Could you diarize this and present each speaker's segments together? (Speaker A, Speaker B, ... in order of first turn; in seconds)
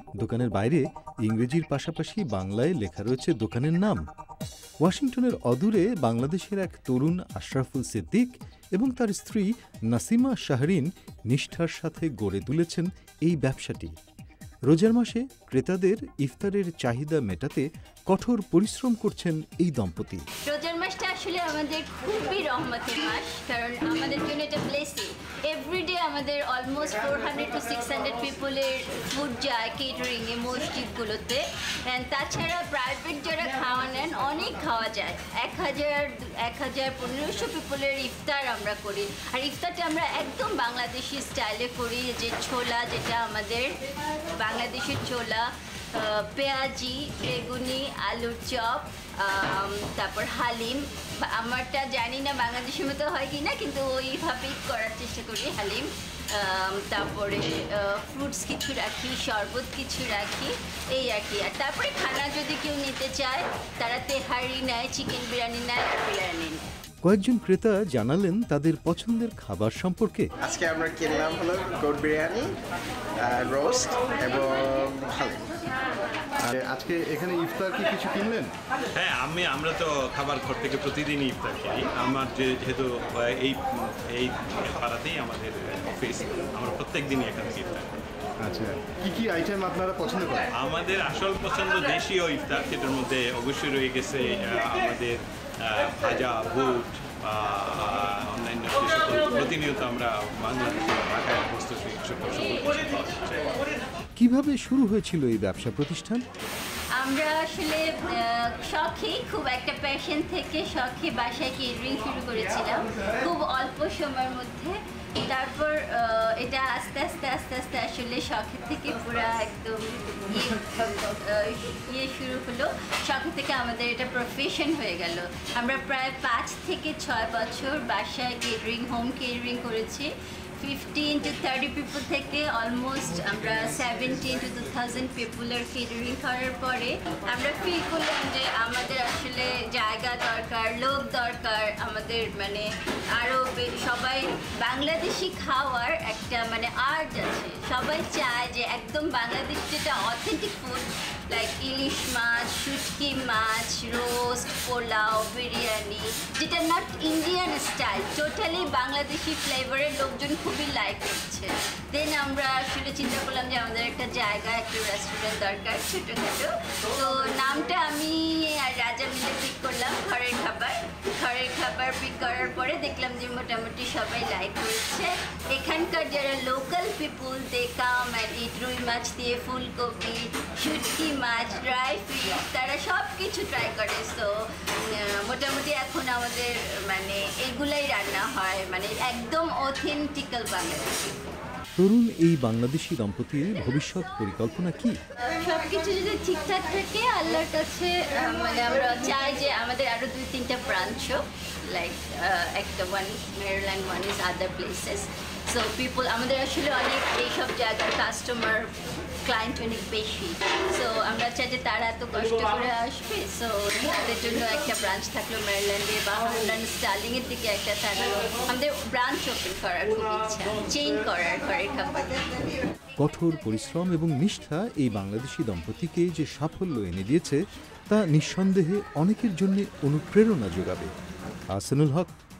Speaker A: 0.2-4.0, 4.8-13.9, 14.7-20.2, 67.0-70.3, 104.2-106.2, 191.8-195.0, 223.0-227.4, 227.9-230.9, 231.5-232.1
Speaker B: 20.4-66.6, 107.0-191.2, 195.2-208.7, 209.2-222.4
Speaker C: 70.4-72.6, 73.2-75.5
Speaker D: 76.4-78.5, 88.4-90.5
Speaker E: 78.9-88.0, 90.5-103.5